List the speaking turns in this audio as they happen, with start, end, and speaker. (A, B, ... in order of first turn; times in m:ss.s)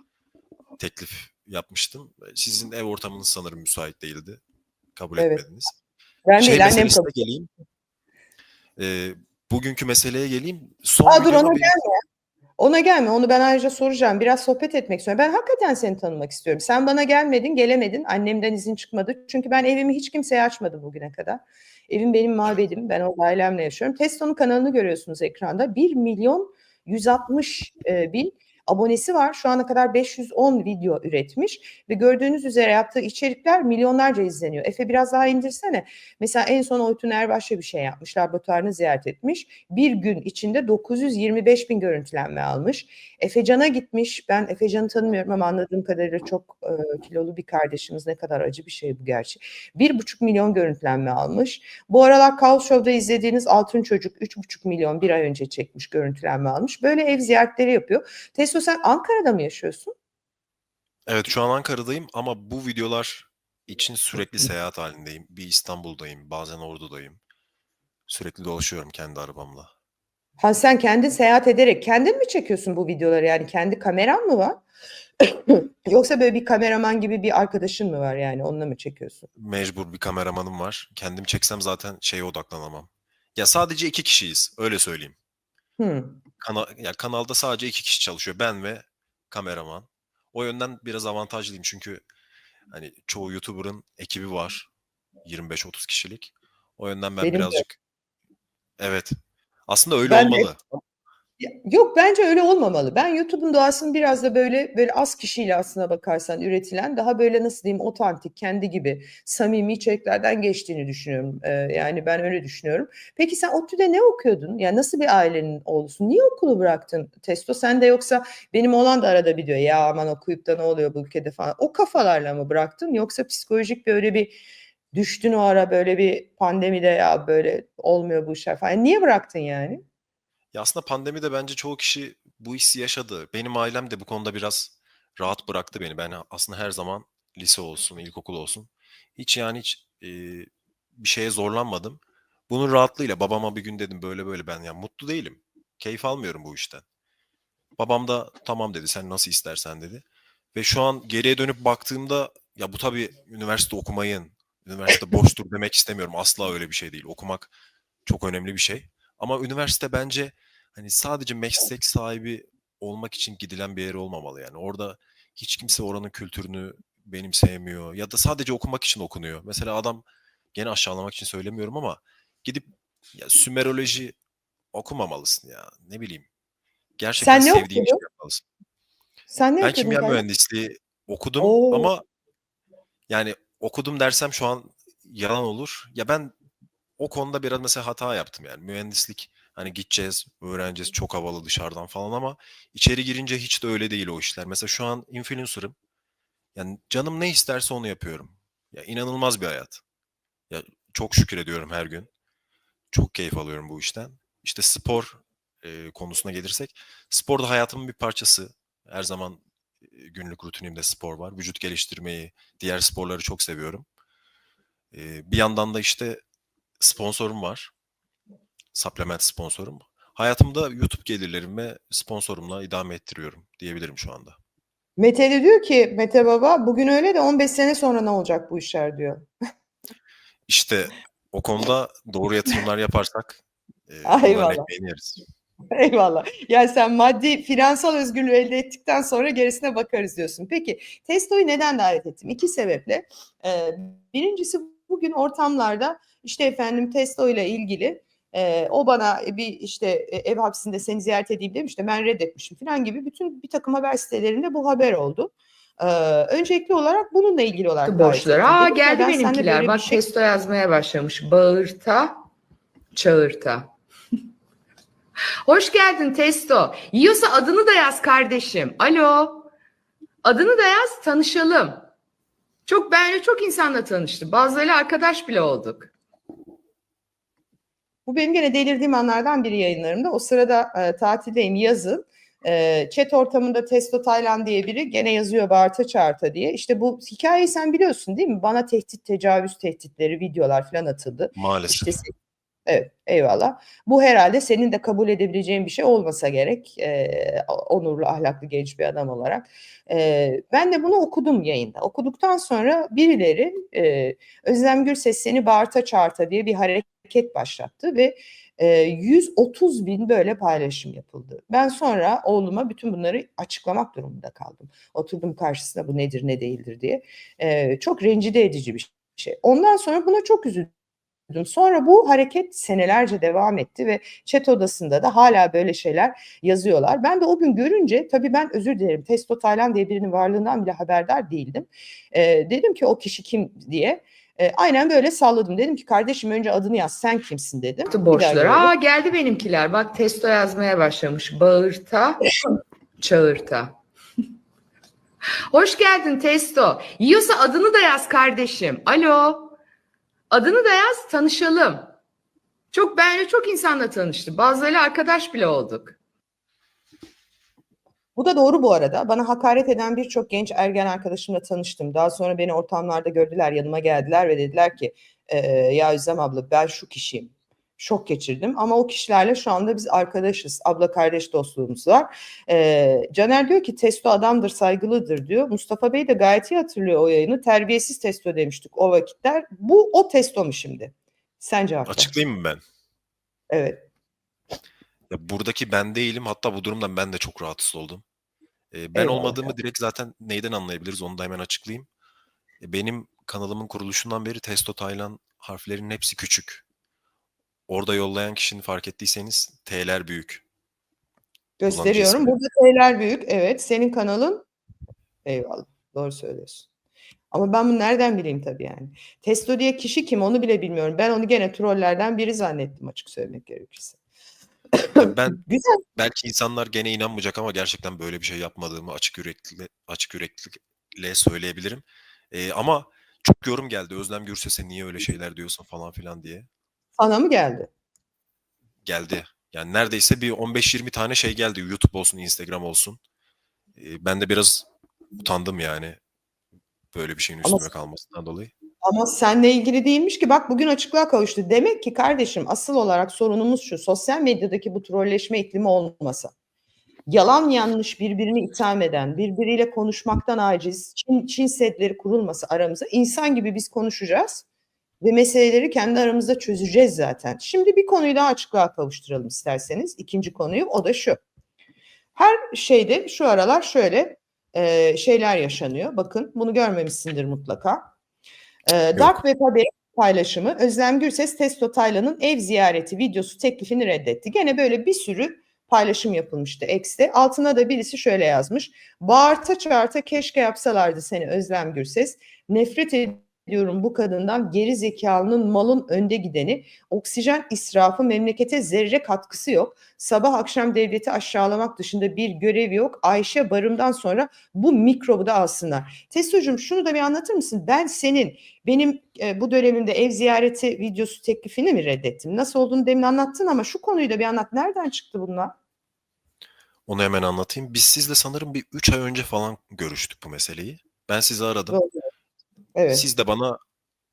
0:00.8-0:04.4 A
0:05.0-0:05.8 A
0:05.2-0:05.4 B
0:06.3-0:07.1 B
0:06.4-0:07.5 A
0:08.8-0:11.7 A
0:11.1-0:11.9 B
0:12.6-0:59.9 B
1:01.1-1:07.2 A
1:08.1-1:09.7 A
1:10.4-1:14.6 B
1:15.3-1:19.3 B
1:19.4-1:25.2 A
1:25.8-1:26.2 B
1:26.4-1:32.0 A
1:32.7-1:34.7 A
1:35.2-1:37.8 A
1:37.2-1:37.6 B
1:38.8-1:39.1 A
1:39.7-1:40.8 A
1:40.1-1:40.5 B
1:41.4-2:04.4 B
2:04.9-2:09.8 B
2:10.5-2:26.8 A
2:27.8-2:30.0 A
2:30.5-2:37.5 A
2:38.1-2:54.2 A
2:54.7-2:56.3 A
2:57.0-2:58.4 A
2:57.2-2:58.0 B
2:59.3-3:00.2 B
2:59.6-3:02.0 A
3:01.4-3:01.9 B
3:03.1-3:06.3 A
3:07.0-3:15.8 A
3:16.6-3:19.8 A
3:20.5-3:22.1 A
3:22.9-3:33.9 A
3:34.9-3:36.2 A
3:36.8-3:37.7 A
3:38.7-3:44.4 A
3:45.0-3:49.3 B
3:50.5-3:55.2 A
3:54.0-3:54.7 B
3:55.7-4:20.0 B
4:17.8-4:22.2 C
4:22.9-4:23.7 C
4:25.4-4:29.5 C
4:30.2-4:31.9 C
4:32.7-4:35.9 C
4:38.1-4:52.1 B
4:51.4-4:52.0 A
4:52.7-5:20.7 B
5:21.3-5:38.7 B
5:37.9-5:42.2 C
5:43.0-5:43.8 C
5:45.5-5:49.6 C
5:50.3-5:51.9 C
5:52.7-5:56.0 C
5:58.2-6:22.1 B
6:21.9-6:22.6 A
6:23.5-6:23.8 B
6:25.1-6:28.0 A
6:28.7-6:31.9 A
6:29.0-6:29.5 B
6:32.6-6:36.6 A
6:37.7-6:40.4 A
6:41.6-6:44.4 B
6:41.6-6:42.4 A
6:45.3-6:46.7 B
6:47.3-6:54.0 B
6:54.8-6:55.8 B
6:55.0-6:55.4 A
6:56.0-7:06.5 A
7:07.0-7:07.7 B
7:08.8-7:13.0 A
7:13.8-7:14.7 A
7:15.2-7:16.0 A
7:16.9-7:18.5 A
7:18.8-7:26.3 B
7:27.1-7:34.4 B
7:35.0-7:41.2 B
7:42.2-7:47.9 B
7:48.7-8:25.5 B
8:26.9-8:31.8 A
8:32.8-8:33.1 B
8:32.9-8:33.6 A